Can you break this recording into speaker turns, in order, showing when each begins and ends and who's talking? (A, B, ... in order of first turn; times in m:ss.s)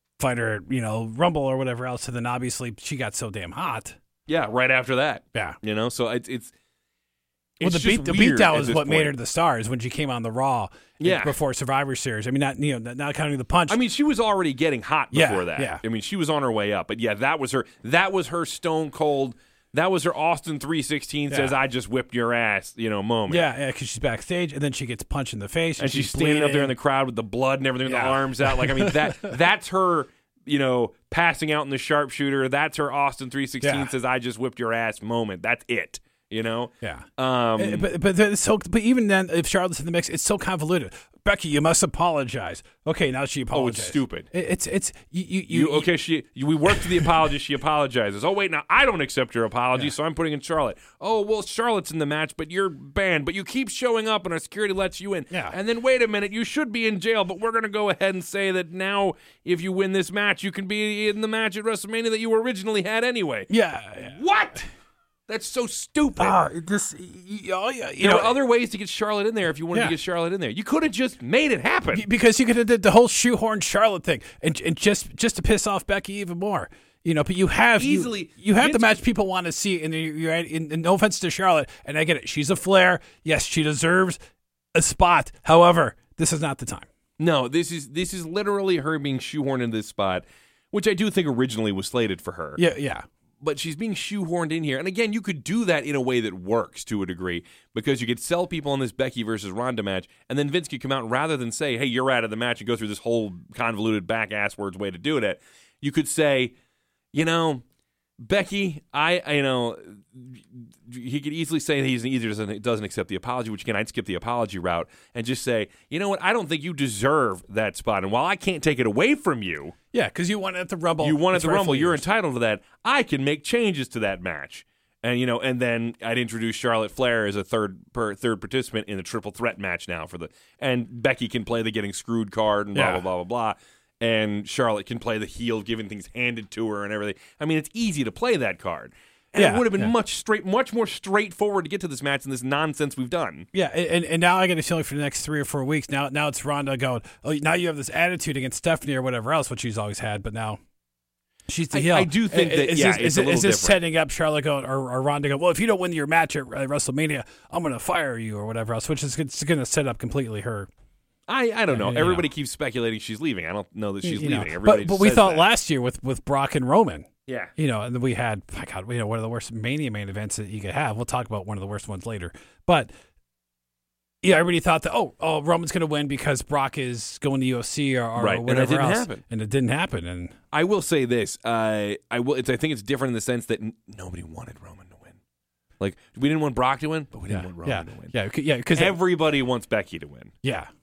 0:00.2-0:04.0 A
0:04.3-0:06.5 B
0:07.6-0:09.2 B
0:07.6-0:13.8 A
0:11.0-0:11.4 B
0:13.7-0:23.5 B
0:15.1-0:15.8 A
0:23.3-0:26.7 A
0:25.8-0:37.9 B
0:27.9-0:29.3 A
0:33.6-0:33.9 A
0:36.8-0:45.9 A
0:43.5-0:44.3 B
0:45.5-1:03.5 B
0:55.3-0:55.6 A
1:03.5-1:04.6 A
1:04.0-1:04.7 B
1:05.3-1:06.4 B
1:06.2-1:08.4 A
1:08.0-1:12.1 B
1:11.9-1:24.2 A
1:17.8-1:18.9 B
1:24.8-1:26.9 A
1:27.2-1:32.6 B
1:32.6-1:33.1 A
1:33.4-1:46.5 B
1:47.1-1:47.6 B
1:48.2-1:59.8 B
1:59.9-2:02.0 A
2:01.0-2:23.5 B
2:12.8-2:13.0 A
2:19.4-2:19.9 A
2:23.5-2:30.6 A
2:31.5-2:40.7 A
2:31.7-2:33.8 B
2:41.3-2:45.5 B
2:41.7-2:42.3 A
2:44.0-2:52.9 A
2:47.3-2:47.5 B
2:54.2-3:00.4 A
2:58.2-2:59.2 B
3:00.5-3:05.2 B
3:05.8-3:08.1 B
3:07.3-3:09.0 A
3:08.7-3:10.3 B
3:10.4-3:10.7 A